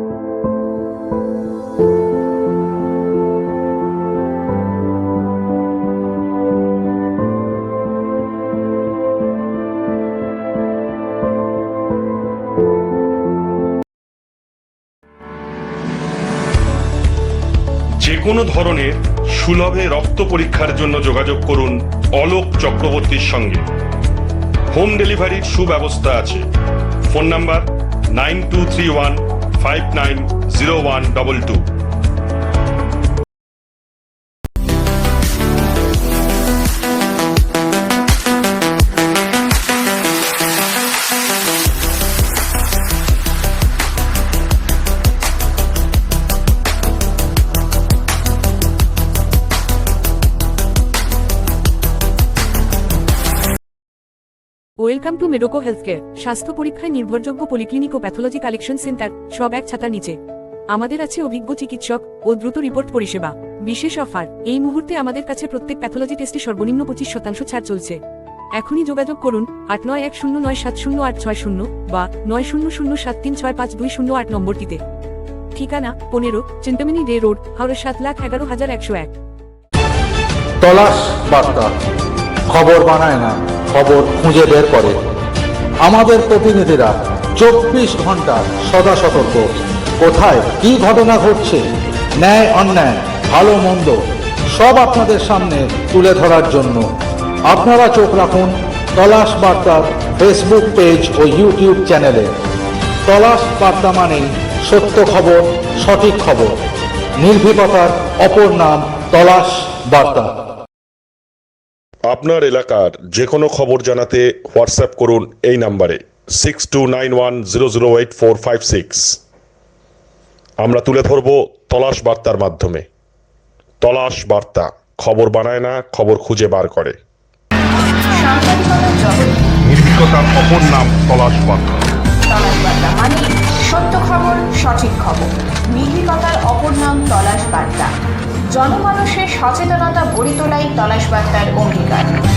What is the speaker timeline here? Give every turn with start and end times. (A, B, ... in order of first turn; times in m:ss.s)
0:18.0-0:23.6 A
0:24.7-0:26.4 A
0:27.1-0:31.6 A
0:54.8-1:00.2 B
1:00.7-1:08.0 B
1:08.6-1:14.8 B
1:15.6-1:19.1 B
1:20.6-1:21.7 C
1:22.5-1:25.0 C
1:25.8-1:29.4 C
1:30.0-1:31.6 C
1:32.2-1:34.0 C
1:34.5-1:36.8 C
1:37.5-1:42.3 C
1:43.0-1:46.5 C
1:47.2-1:50.3 C
1:52.1-1:59.2 A
2:00.6-2:02.8 A
2:03.8-2:07.0 A
2:08.1-2:09.4 D
2:09.6-2:11.8 A
2:12.3-2:17.9 D
2:18.5-2:22.1 D